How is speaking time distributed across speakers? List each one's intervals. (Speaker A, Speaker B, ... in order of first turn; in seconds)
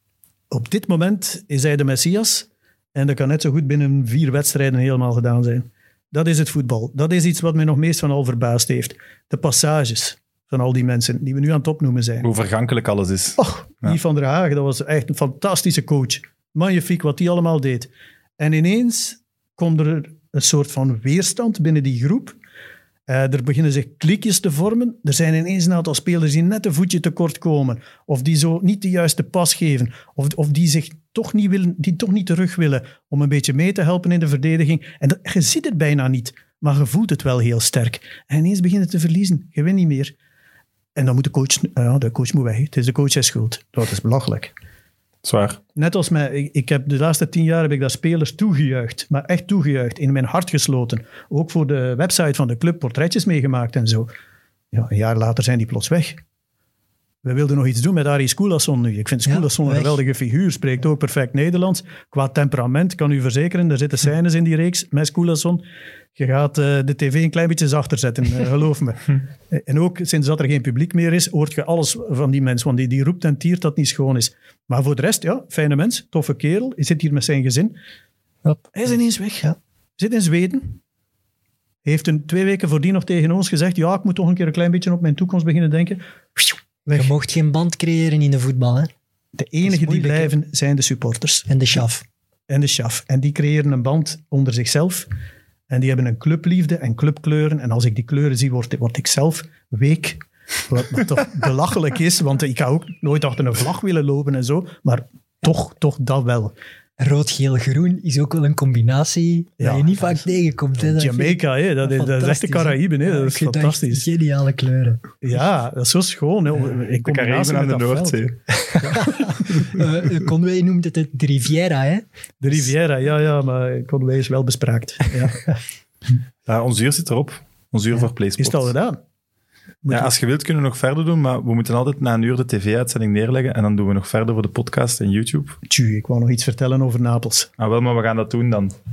Speaker A: 0.5-12.3, 13.4-22.4, 23.1-40.1, 40.9-44.5, 45.7-54.1, 54.7-56.2, 57.2-65.6, 66.2-77.8, 78.7-80.8, 81.8-87.1, 89.3-91.5, 92.5-95.1, 95.7-106.5, 109.6-110.3, 110.8-114.0, 115.2-118.2, 118.8-119.2, 122.4-125.4, 128.4-129.0, 129.8-130.1, 135.7-137.5
Speaker B: 12.2-14.0, 45.2-45.6, 117.0-118.4, 119.4-119.8, 126.5-128.7, 129.9-135.6, 137.6-138.7
Speaker C: 59.3-60.0, 78.4-78.8, 86.9-88.9, 89.6-90.3, 91.5-92.0, 107.0-115.0, 118.5-122.5